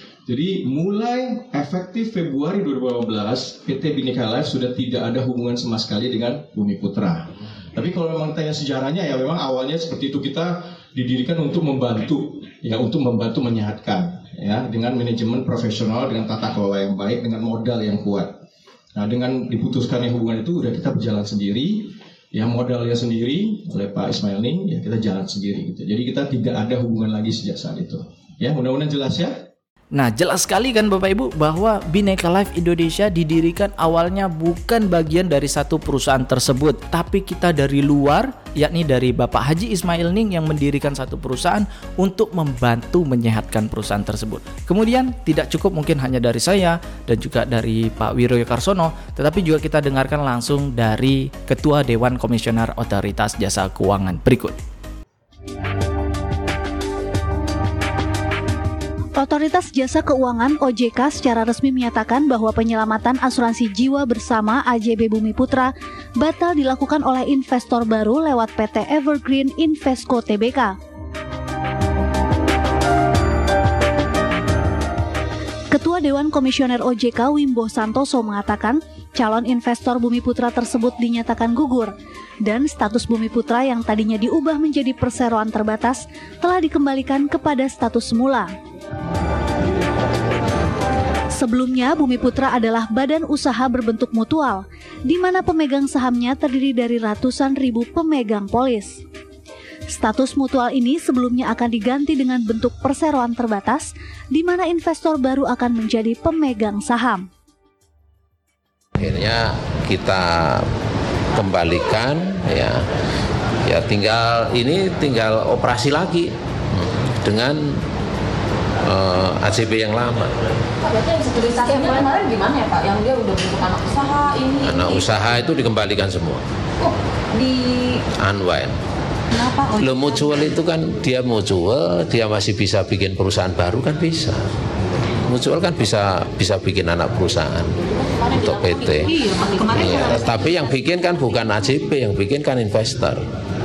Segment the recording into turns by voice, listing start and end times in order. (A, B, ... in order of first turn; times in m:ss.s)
0:00.2-0:18.3 A
0:18.9-0:29.4 A
0:29.9-0:54.6 B
0:59.2-1:10.8 C
1:15.7-1:21.9 C
1:22.5-1:28.5 C
1:31.4-1:39.0 C
1:39.9-1:47.3 C
1:49.0-1:50.7 D
1:51.3-1:52.8 D
1:53.6-1:57.8 D
1:58.8-2:00.3 D
2:00.8-2:05.0 E
2:04.6-2:06.4 D
2:06.8-2:08.0 E
2:08.2-2:08.8 D
2:09.4-2:09.8 E
2:09.8-2:14.4 D
2:15.3-2:23.2 D
2:18.0-2:20.2 E